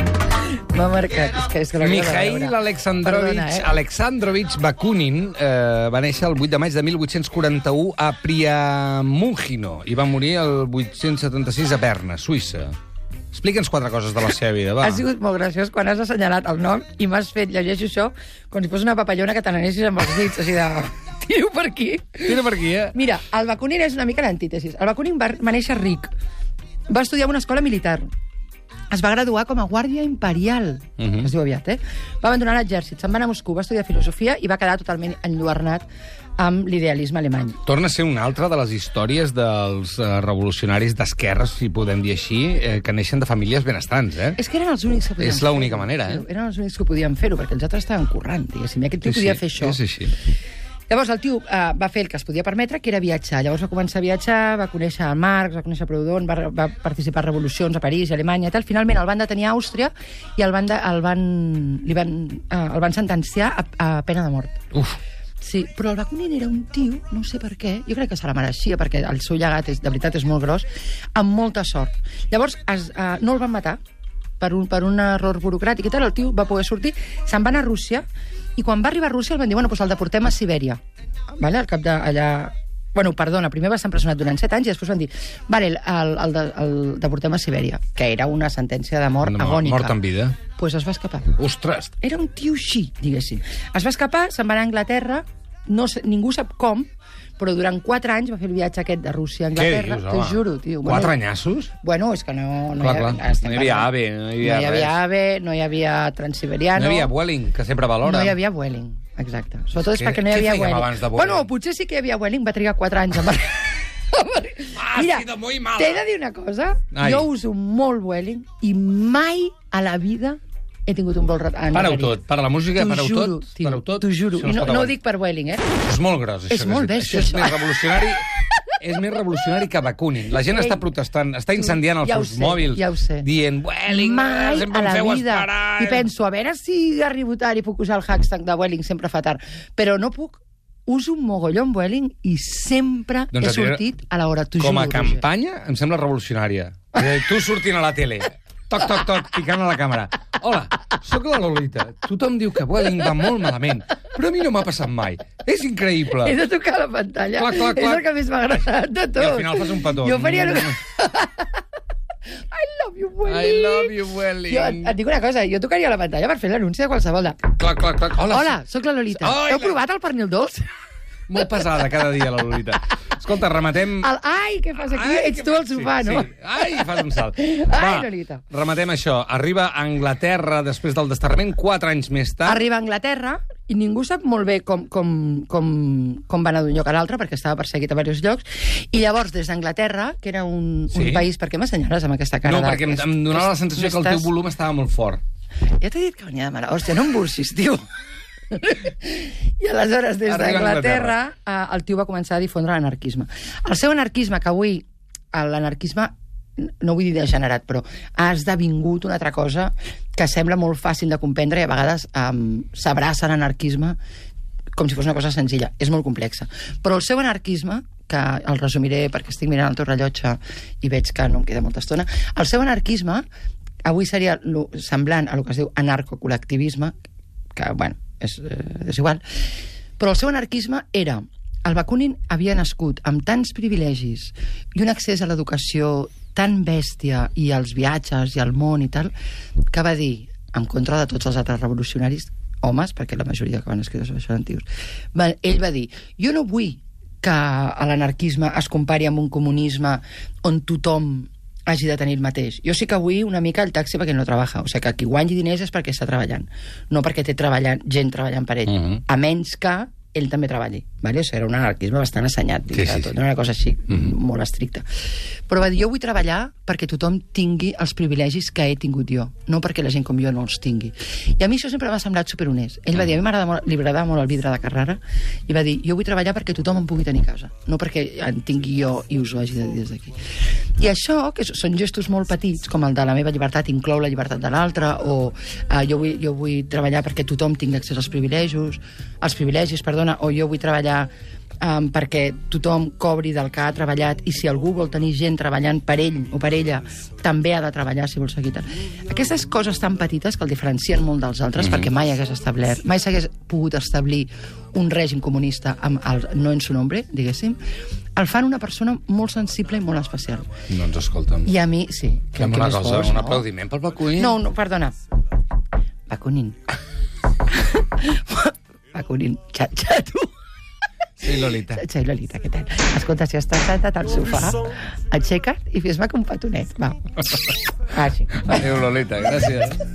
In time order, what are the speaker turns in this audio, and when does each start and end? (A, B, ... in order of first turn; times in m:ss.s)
0:00.6-0:03.7 A
0:01.8-0:12.8 B
0:13.3-0:15.0 B
0:14.8-0:26.1 A
0:22.2-0:23.0 B
0:26.9-0:28.1 A
0:28.9-0:35.9 A
0:31.0-0:31.3 B
0:36.4-0:37.6 A
0:37.7-0:44.4 B
0:44.4-0:49.8 A
0:45.2-0:46.2 B
0:49.0-0:50.2 B
0:50.9-1:04.7 A
1:04.7-1:05.0 B
1:05.4-1:13.8 A
1:14.4-1:20.8 A
1:21.4-1:30.0 A
1:29.2-1:30.4 B
1:30.5-1:31.4 A
1:31.4-1:31.9 B
1:32.0-1:41.2 A
1:39.6-1:41.7 B
1:41.8-1:47.1 A
1:42.8-1:45.0 B
1:46.8-1:48.4 B
1:48.0-2:02.2 A
1:49.8-1:51.5 B
1:54.7-1:56.0 B
1:56.9-1:57.3 B
2:01.7-2:05.0 B
2:02.8-2:05.8 A
2:05.8-2:16.1 B
2:06.5-2:07.7 A
2:10.5-2:10.8 A
2:11.6-2:13.3 A
2:13.9-2:25.2 A
2:23.3-2:23.8 B
2:24.6-2:36.4 B
2:36.1-2:41.6 A
2:37.4-2:38.1 B
2:39.2-2:40.8 B
2:42.5-2:47.5 A
2:43.2-2:45.0 B
2:47.5-2:48.6 B
2:48.2-2:50.7 A
2:49.2-2:49.8 B
2:51.3-2:54.1 B
2:54.0-2:58.4 A
2:54.8-3:02.6 B
3:02.4-3:14.3 A
3:10.9-3:11.3 B
3:12.4-3:15.2 B
3:15.8-3:17.8 A
3:18.5-3:34.0 A
3:20.3-3:21.2 B
3:34.7-3:43.2 A
3:43.8-3:46.9 A
3:47.6-3:49.2 A
3:50.0-3:59.1 A
3:59.7-4:24.8 A
4:18.7-4:19.0 B
4:22.7-4:23.1 B
4:25.5-4:40.2 A
4:40.8-4:51.1 A
4:51.6-5:07.6 A
5:01.6-5:01.9 B
5:08.2-5:10.6 A
5:10.7-5:11.5 B
5:11.4-5:13.4 A
5:12.4-5:14.4 B
5:14.1-5:14.9 A
5:16.1-5:16.7 A
5:17.6-5:20.3 A
5:21.2-5:21.8 B
5:21.7-5:27.1 A
5:27.9-5:28.6 A
5:28.4-5:29.8 B